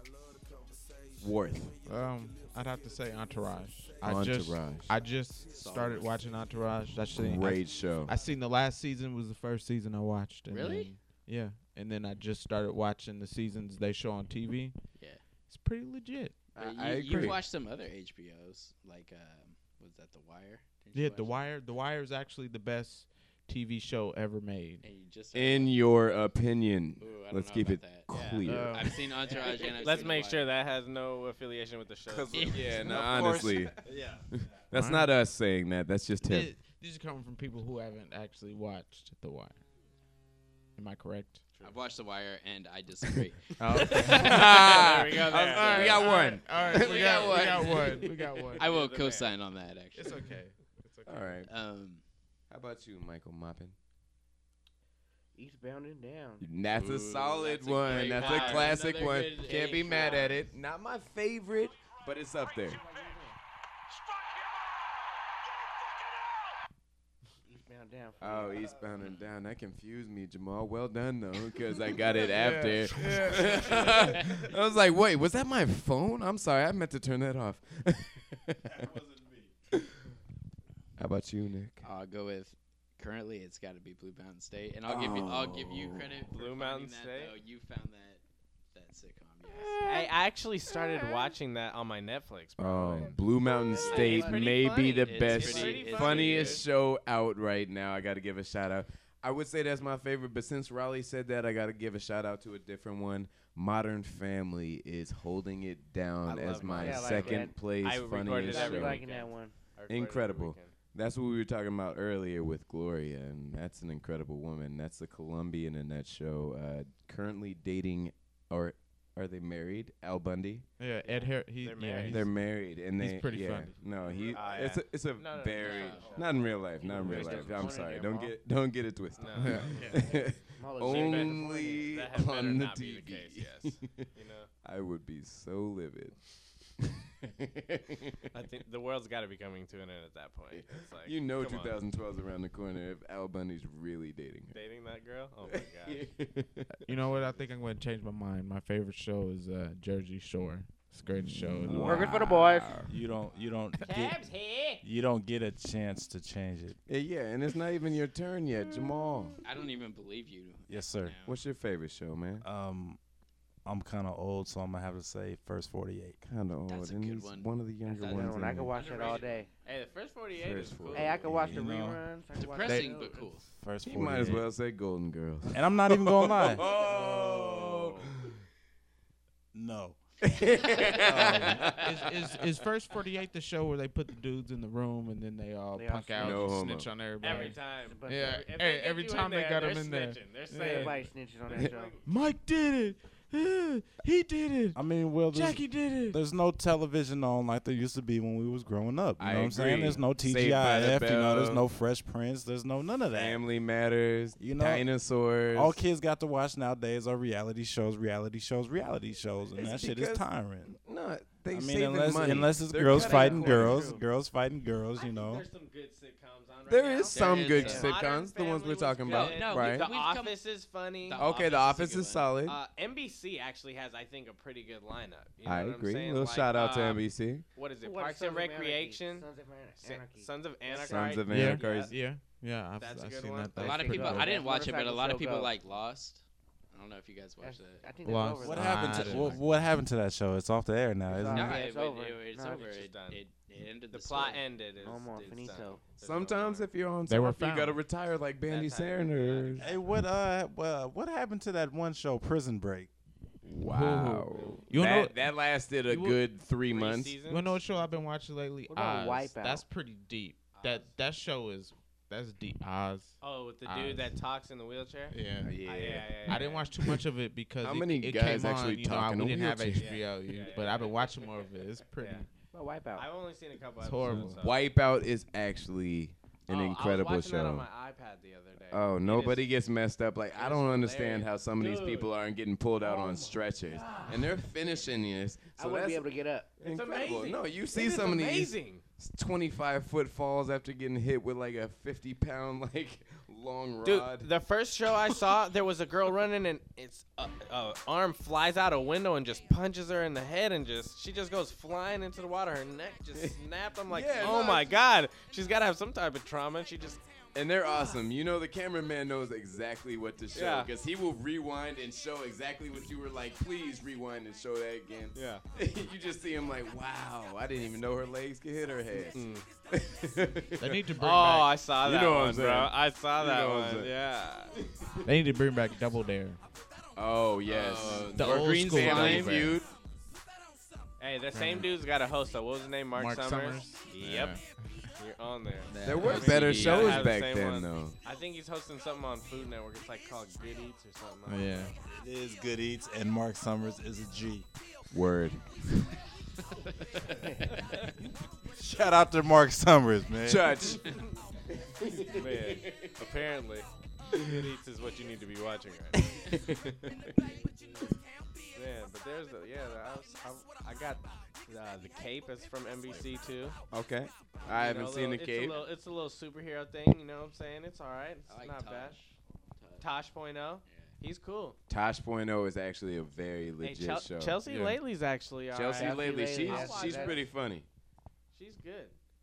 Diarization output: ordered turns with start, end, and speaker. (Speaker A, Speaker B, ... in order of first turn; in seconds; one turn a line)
Speaker A: 1.2-1.7
Speaker B: 1.8-15.0
Speaker A: 4.0-4.9
Speaker C: 5.5-6.2
Speaker A: 7.1-8.1
Speaker C: 10.5-10.9
Speaker C: 14.9-15.2
Speaker B: 15.5-16.4
Speaker A: 16.5-17.4
Speaker C: 16.6-21.4
Speaker B: 20.9-24.8
Speaker C: 24.8-26.1
Speaker A: 25.3-28.8
Speaker C: 27.0-30.5
Speaker D: 28.1-28.4
Speaker B: 28.4-28.9
Speaker D: 29.2-32.8
Speaker E: 32.0-34.5
Speaker C: 32.3-33.5
Speaker A: 32.5-36.5
Speaker B: 34.7-35.1
Speaker B: 36.2-39.6
Speaker B: 40.8-41.4
Speaker C: 41.6-44.4
Speaker B: 43.6-44.5
Speaker A: 44.0-47.7
Speaker D: 44.5-49.3
Speaker B: 45.5-48.6
Speaker C: 45.6-48.0
Speaker C: 48.5-50.3
Speaker B: 49.9-51.4
Speaker A: 51.0-51.5
Speaker C: 51.4-52.0
Speaker A: 52.5-53.8
Speaker F: 55.3-56.5
Speaker A: 56.4-62.8
Speaker C: 56.8-60.5
Speaker D: 58.1-58.7
Speaker F: 62.7-63.4
Speaker F: 67.5-68.8
Speaker A: 68.2-78.7
Speaker B: 72.3-73.7
Speaker C: 73.1-74.0
Speaker E: 78.7-79.5
Speaker A: 81.0-81.8
Speaker C: 81.8-88.2
Speaker A: 84.9-86.1
Speaker D: 86.3-87.3
Speaker C: 88.7-89.8
Speaker D: 89.8-93.2
Speaker A: 92.6-109.1
Speaker F: 93.4-94.6
Speaker D: 93.7-96.7
Speaker C: 93.8-96.7
Speaker D: 106.2-110.8
Speaker F: 106.6-107.7
Speaker F: 108.4-109.5
Speaker A: 109.9-120.7
Speaker B: 120.8-123.9
Speaker D: 121.0-122.3
Speaker A: 122.1-136.2
Speaker D: 124.3-127.8
Speaker C: 125.6-127.9
Speaker F: 126.8-128.4
Speaker D: 129.2-130.0
Speaker B: 129.6-130.0
Speaker F: 130.5-131.9
Speaker D: 130.8-134.5
Speaker A: 137.2-138.2
Speaker D: 138.3-141.8
Speaker A: 140.5-144.6
Speaker D: 144.5-146.1
Speaker A: 145.4-146.9
Speaker B: 146.8-152.4
Speaker A: 151.7-152.6
Speaker F: 151.7-152.8
Speaker E: 151.8-152.1
Speaker E: 152.8-154.2
Speaker D: 154.1-154.8
Speaker E: 154.8-156.8
Speaker A: 156.8-159.3
Speaker C: 159.4-161.4
Speaker E: 160.7-161.2
Speaker A: 161.2-162.4
Speaker E: 162.4-163.0
Speaker E: 163.6-166.2
Speaker A: 166.2-168.7
Speaker C: 166.7-169.3
Speaker F: 167.9-169.5
Speaker D: 168.8-171.3
Speaker A: 170.3-171.6
Speaker F: 170.9-173.4
Speaker E: 171.3-172.0
Speaker C: 172.3-173.4
Speaker E: 173.5-174.5
Speaker A: 173.8-178.4
Speaker E: 175.5-176.6
Speaker D: 176.6-177.9
Speaker E: 179.5-180.0
Speaker A: 180.2-182.3
Speaker E: 181.0-181.7
Speaker B: 181.2-190.9
Speaker F: 185.7-186.5
Speaker A: 186.2-186.9
Speaker D: 187.2-192.0
Speaker F: 187.7-188.4
Speaker F: 190.5-191.9
Speaker B: 192.0-196.2
Speaker E: 194.7-203.4
Speaker A: 199.2-201.7
Speaker A: 203.1-205.8
Speaker E: 204.4-204.9
Speaker E: 205.5-210.8
Speaker A: 209.6-213.9
Speaker E: 211.5-215.4
Speaker F: 212.8-214.0
Speaker D: 214.9-221.3
Speaker A: 216.7-219.9
Speaker C: 217.1-218.0
Speaker F: 217.6-217.9
Speaker C: 219.0-220.4
Speaker C: 221.0-222.3
Speaker A: 221.2-222.6
Speaker D: 222.4-229.3
Speaker A: 225.4-227.5
Speaker F: 227.8-231.2
Speaker D: 229.8-231.9
Speaker A: 230.8-231.9
Speaker B: 231.3-234.4
Speaker D: 232.8-234.0
Speaker C: 233.6-237.9
Speaker F: 233.9-235.5
Speaker F: 237.4-239.4
Speaker B: 238.0-239.4
Speaker E: 238.4-241.6
Speaker F: 241.1-242.7
Speaker C: 241.3-244.5
Speaker D: 242.4-243.2
Speaker D: 243.9-246.7
Speaker F: 244.8-245.9
Speaker C: 245.1-245.6
Speaker A: 245.9-249.7
Speaker B: 247.1-247.8
Speaker C: 248.5-249.8
Speaker E: 249.6-252.9
Speaker A: 253.4-257.2
Speaker B: 253.7-255.2
Speaker D: 254.3-254.6
Speaker B: 255.9-256.2
Speaker D: 256.7-257.6
Speaker B: 257.2-264.1
Speaker F: 258.7-259.6
Speaker D: 260.5-260.9
Speaker D: 263.2-266.7
Speaker B: 265.1-265.5
Speaker A: 265.4-266.4
Speaker B: 266.3-272.3
Speaker A: 267.6-270.0
Speaker D: 269.8-271.3
Speaker D: 272.0-272.3
Speaker F: 272.5-273.1
Speaker D: 272.9-274.7
Speaker B: 273.8-274.4
Speaker A: 274.1-277.7
Speaker D: 276.5-279.5
Speaker A: 278.7-294.3
Speaker D: 280.3-282.1
Speaker D: 283.8-284.1
Speaker F: 285.5-286.5
Speaker D: 286.6-288.8
Speaker D: 293.8-307.0
Speaker A: 303.9-304.8
Speaker A: 307.3-320.9
Speaker D: 307.7-308.0
Speaker D: 310.3-310.7
Speaker D: 315.1-315.4
Speaker D: 318.9-319.5
Speaker B: 320.6-321.5
Speaker D: 321.0-324.5
Speaker A: 321.8-323.9
Speaker B: 325.0-326.4
Speaker A: 326.9-329.7
Speaker D: 327.5-328.1
Speaker C: 327.5-329.5
Speaker B: 328.1-329.6
Speaker D: 331.0-334.4
Speaker B: 331.3-331.7
Speaker B: 332.9-334.9
Speaker D: 334.9-341.7
Speaker C: 335.7-337.1
Speaker A: 335.8-338.0
Speaker B: 341.2-341.7
Speaker E: 341.9-344.5
Speaker A: 344.9-345.5
Speaker E: 348.6-350.6
Speaker A: 350.2-351.1
Speaker A: 351.8-352.9
Speaker D: 352.1-353.7
Speaker D: 354.2-356.3
Speaker A: 356.4-356.9
Speaker D: 358.5-363.6
Speaker A: 363.7-365.6
Speaker D: 364.5-369.0
Speaker C: 368.3-369.9
Speaker D: 369.8-371.6
Speaker C: 370.6-370.9
Speaker A: 371.7-374.7
Speaker D: 373.6-377.3
Speaker A: 375.5-377.7
Speaker F: 375.7-377.2
Speaker D: 378.3-378.9